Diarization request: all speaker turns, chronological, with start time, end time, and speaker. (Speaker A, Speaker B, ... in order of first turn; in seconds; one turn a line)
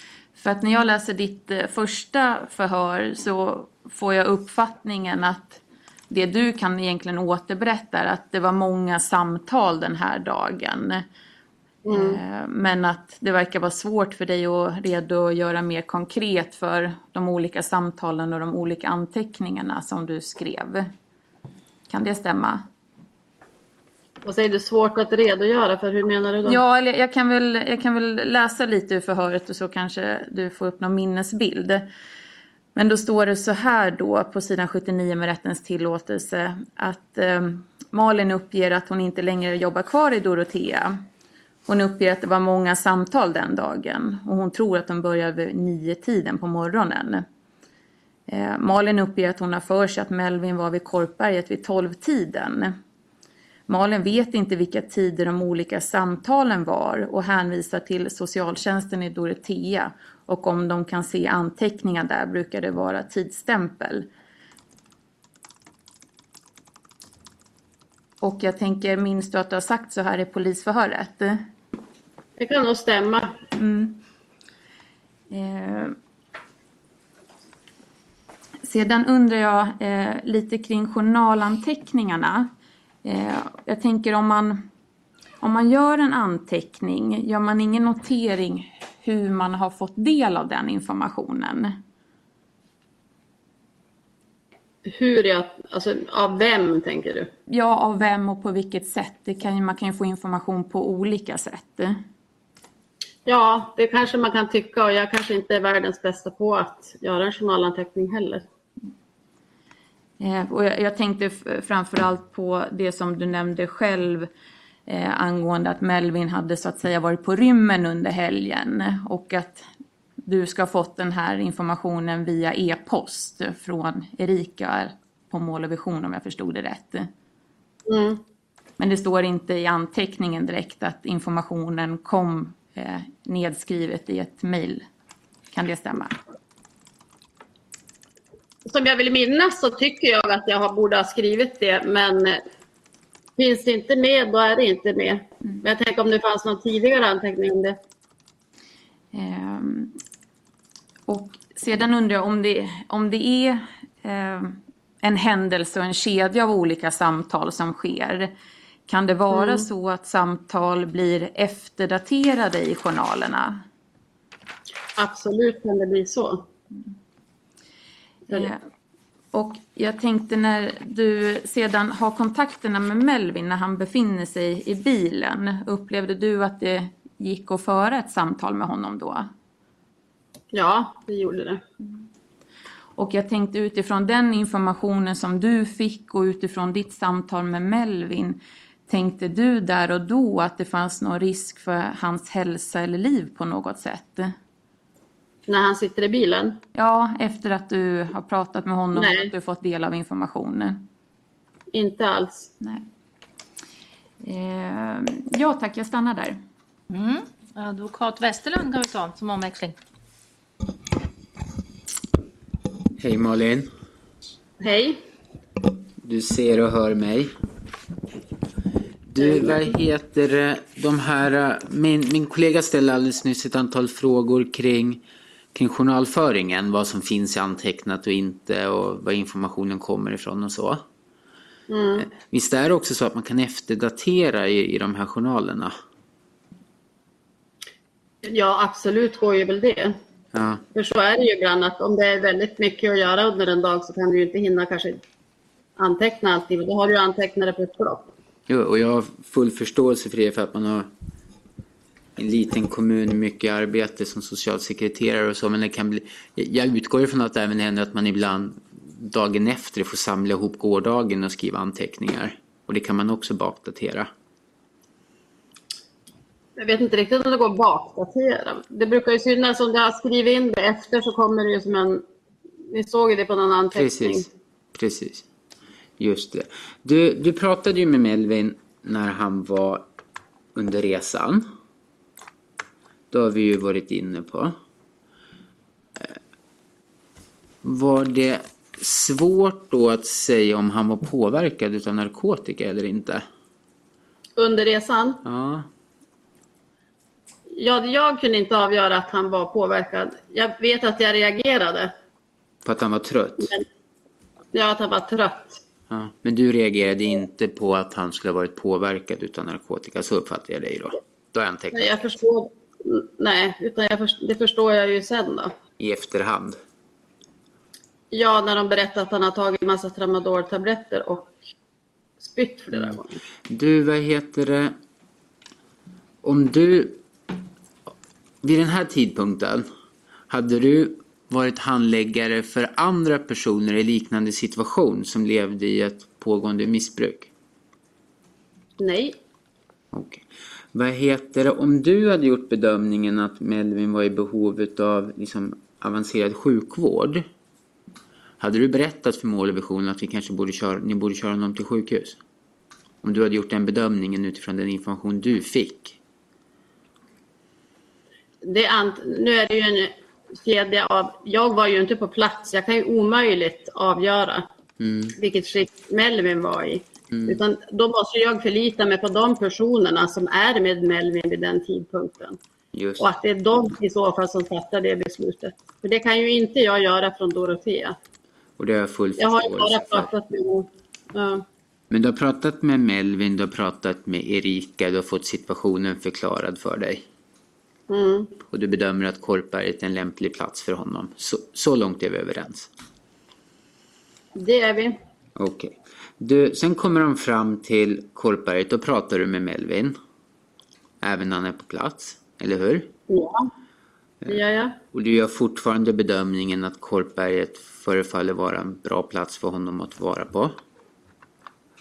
Speaker A: 0.4-11.1
Speaker B: 11.8-12.2
Speaker A: 11.9-20.9
Speaker A: 21.9-22.7
Speaker B: 24.2-26.6
Speaker A: 26.4-31.9
Speaker A: 32.8-41.0
Speaker A: 41.7-47.3
Speaker A: 48.3-52.8
Speaker A: 53.7-64.1
Speaker A: 68.2-71.5
Speaker B: 72.4-73.3
Speaker A: 73.6-74.0
Speaker A: 75.3-76.0
Speaker A: 78.6-82.5
Speaker A: 83.0-84.7
Speaker A: 85.4-91.8
Speaker B: 94.8-97.3
Speaker A: 97.5-102.0
Speaker B: 103.3-108.5
Speaker A: 110.2-114.3
Speaker A: 114.9-119.7
Speaker A: 120.3-127.1
Speaker B: 127.9-128.2
Speaker A: 128.8-134.9
Speaker A: 135.5-136.2
Speaker B: 138.7-142.4
Speaker B: 143.4-147.8
Speaker A: 149.1-150.0
Speaker A: 151.1-158.3
Speaker A: 158.9-163.6
Speaker B: 159.3-159.7
Speaker B: 165.0-166.5
Speaker A: 168.3-168.6
Speaker A: 169.3-179.3
Speaker B: 180.5-181.6
Speaker A: 183.0-194.4
Speaker B: 195.5-196.6
Speaker A: 196.8-200.9
Speaker B: 198.9-199.3
Speaker B: 201.7-202.5
Speaker A: 202.6-202.9
Speaker A: 204.2-206.4
Speaker C: 206.9-209.8
Speaker D: 213.0-213.7
Speaker B: 214.6-215.0
Speaker D: 216.0-217.3
Speaker D: 219.1-225.0
Speaker B: 219.2-219.7
Speaker D: 225.5-230.8
Speaker B: 231.7-232.1
Speaker D: 232.0-235.7
Speaker B: 238.2-240.0
Speaker D: 240.3-240.6
Speaker B: 240.7-245.0
Speaker B: 245.8-248.1
Speaker D: 248.5-250.9
Speaker D: 252.2-264.1
Speaker B: 266.6-272.0
Speaker B: 272.7-274.2
Speaker D: 273.7-275.2
Speaker D: 276.0-279.9
Speaker D: 280.6-281.5
Speaker D: 283.1-284.6
Speaker D: 287.6-293.2
Speaker B: 294.4-295.2
Speaker D: 295.2-295.7
Speaker B: 297.5-301.9
Speaker D: 302.6-303.6
Speaker B: 304.5-305.6
Speaker D: 305.9-312.0
Speaker B: 311.7-315.6
Speaker D: 315.8-316.6
Speaker B: 318.1-321.4
Speaker B: 322.2-323.1
Speaker D: 323.5-324.8
Speaker D: 326.2-327.0
Speaker D: 328.4-329.7
Speaker D: 330.3-337.3
Speaker B: 338.8-339.2
Speaker D: 339.9-347.3
Speaker D: 348.4-352.2
Speaker D: 353.0-356.0
Speaker B: 358.4-364.5
Speaker D: 364.8-365.1
Speaker B: 365.1-372.4
Speaker D: 367.1-367.4
Speaker D: 372.7-373.1
Speaker B: 373.0-378.0
Speaker D: 378.6-380.1
Speaker B: 379.2-381.4
Speaker D: 381.9-387.1
Speaker B: 387.9-388.3
Speaker D: 388.5-392.7
Speaker B: 394.4-395.0
Speaker D: 395.4-400.0
Speaker D: 401.0-402.9
Speaker B: 403.1-403.5
Speaker B: 404.3-404.8
Speaker D: 404.9-410.6